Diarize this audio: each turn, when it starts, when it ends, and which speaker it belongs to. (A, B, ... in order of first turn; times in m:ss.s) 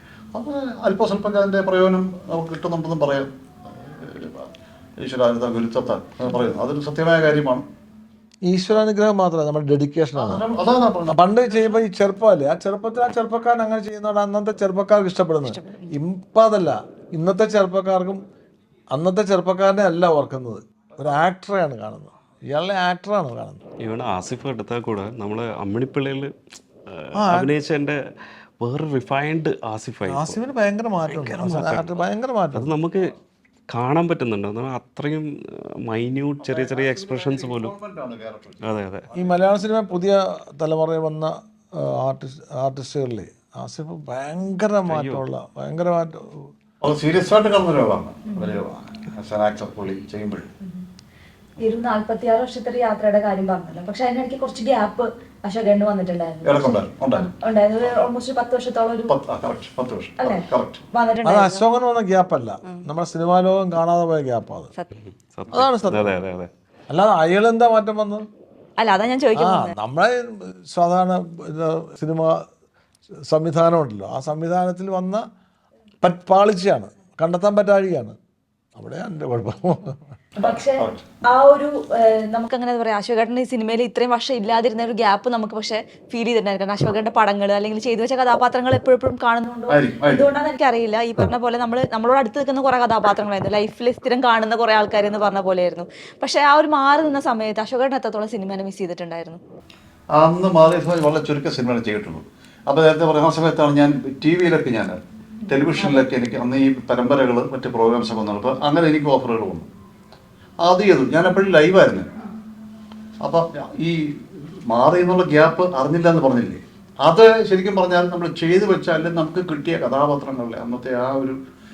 0:00.3-0:07.6 A
0:08.5-0:10.4 B
0:10.2-0:11.2 A
0:11.1-0:18.2 B
0:15.4-0:15.9 C
0:18.9-0:23.6 B
0:23.8-0:26.3 D
0:26.9-0:28.0 D
0:27.1-0:27.5 B
0:28.6-0:30.4 D
0:30.1-0:32.7 B
0:31.1-0:32.0 D
0:32.5-0:33.1 D
0:33.7-0:37.7 D
0:36.4-0:39.6 A
0:38.7-0:39.0 D
0:39.1-0:46.5 B
0:44.9-0:45.2 D
0:46.8-0:50.5 A
0:48.3-0:48.6 C
0:51.6-0:59.2 C
0:56.4-0:57.3 A
0:59.1-1:00.8 A
1:00.2-1:01.6 C
1:01.2-1:04.7 B
1:05.0-1:06.5 D
1:05.5-1:06.2 B
1:06.9-1:08.2 B
1:08.8-1:09.7 C
1:09.4-1:12.4 B
1:13.3-1:15.2 B
1:16.0-1:18.2 B
1:18.8-1:20.2 B
1:20.4-1:39.4 C
1:20.6-1:21.0 A
1:29.7-1:30.3 A
1:40.2-1:49.7 A
1:45.5-1:46.1 C
1:50.6-1:52.1 A
1:53.2-2:01.4 A